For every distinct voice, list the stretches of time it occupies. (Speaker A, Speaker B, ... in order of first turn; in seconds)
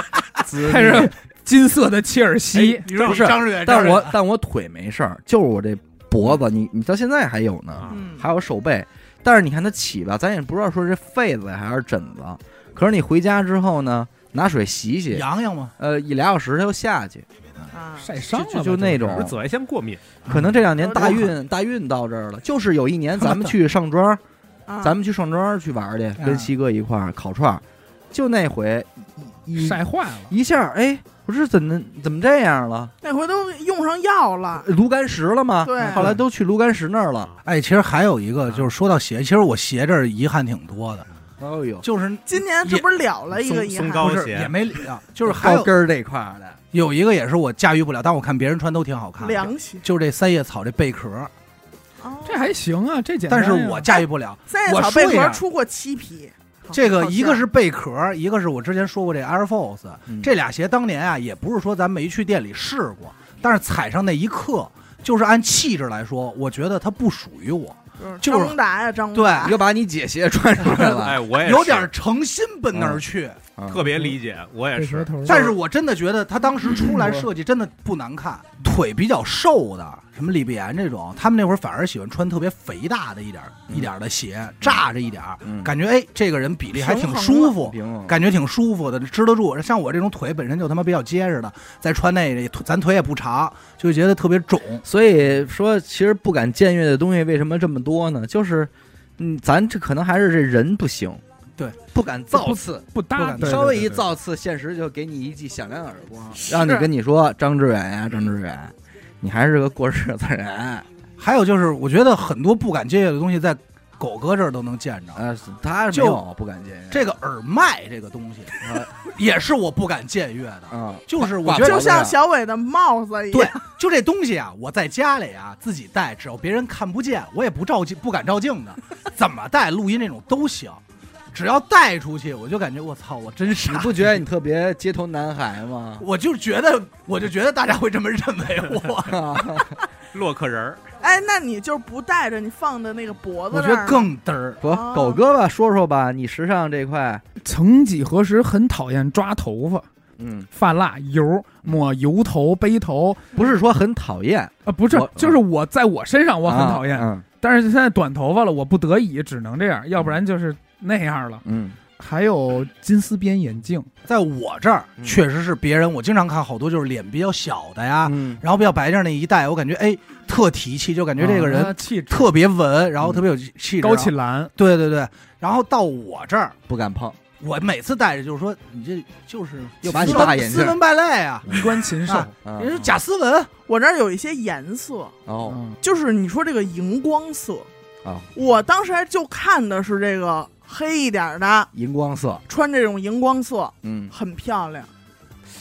Speaker A: 0.4-1.1, 2.9-15.2, 15.8-17.3, 18.3-19.4, 20.3-24.2, 24.8-32.9, 34.6-37.3, 41.4-41.9, 45.2-46.6, 69.4-71.3, 72.7-73.0, 73.6-73.9, 76.9-77.1, 85.4-85.7, 86.8-88.2, 94.8-101.2, 101.9-110.9, 115.2-117.1, 118.6-118.9, 120.7-122.2, 133.6-136.1, 139.1-139.7, 144.6-147.2, 150.2-150.5, 153.3-155.4, 156.5-157.2, 161.4-161.8, 168.0-168.4, 176.7-177.2, 179.8-180.8, 182.4-182.8, 185.3-185.6, 188.0-188.3, 191.7-192.4, 193.8-194.1
Speaker B: 0.6-2.9, 18.0-19.3, 29.6-30.3, 52.2-53.9, 74.8-75.5, 102.3-104.1, 147.4-149.9, 150.5-153.2, 154.7-161.4, 162.0-163.9, 171.2-172.3, 173.8-174.5, 180.0-180.3, 181.5-182.9, 185.5-185.8
Speaker C: 2.5-4.2, 15.1-15.7, 20.3-21.3, 23.2-23.5, 26.2-26.5, 35.8-36.2, 37.5-41.1, 41.8-42.9, 44.0-45.7, 46.7-51.3, 53.3-55.4, 56.7-68.6, 69.1-69.5, 70.6-73.4, 75.2-94.8, 103.2-103.8, 111.2-115.2, 115.9-116.2, 116.9-122.1, 123.3-130.8, 131.3-134.2, 136.0-139.3, 143.5-144.6, 164.1-176.6, 177.4-183.5
Speaker D: 2.9-3.2, 19.0-20.2, 43.3-44.6, 71.0-71.9, 73.7-75.5, 140.1-140.8
Speaker E: 7.9-8.2, 17.7-18.1, 20.8-21.2, 24.7-25.0, 33.0-34.7, 35.6-36.1, 42.3-44.1, 49.2-49.8, 52.0-52.5, 53.9-57.5, 68.0-69.6, 87.0-87.3, 106.4-106.9, 121.6-123.6, 141.0-144.1, 144.6-145.2, 183.7-185.2, 185.8-187.7, 188.3-191.7, 192.5-194.9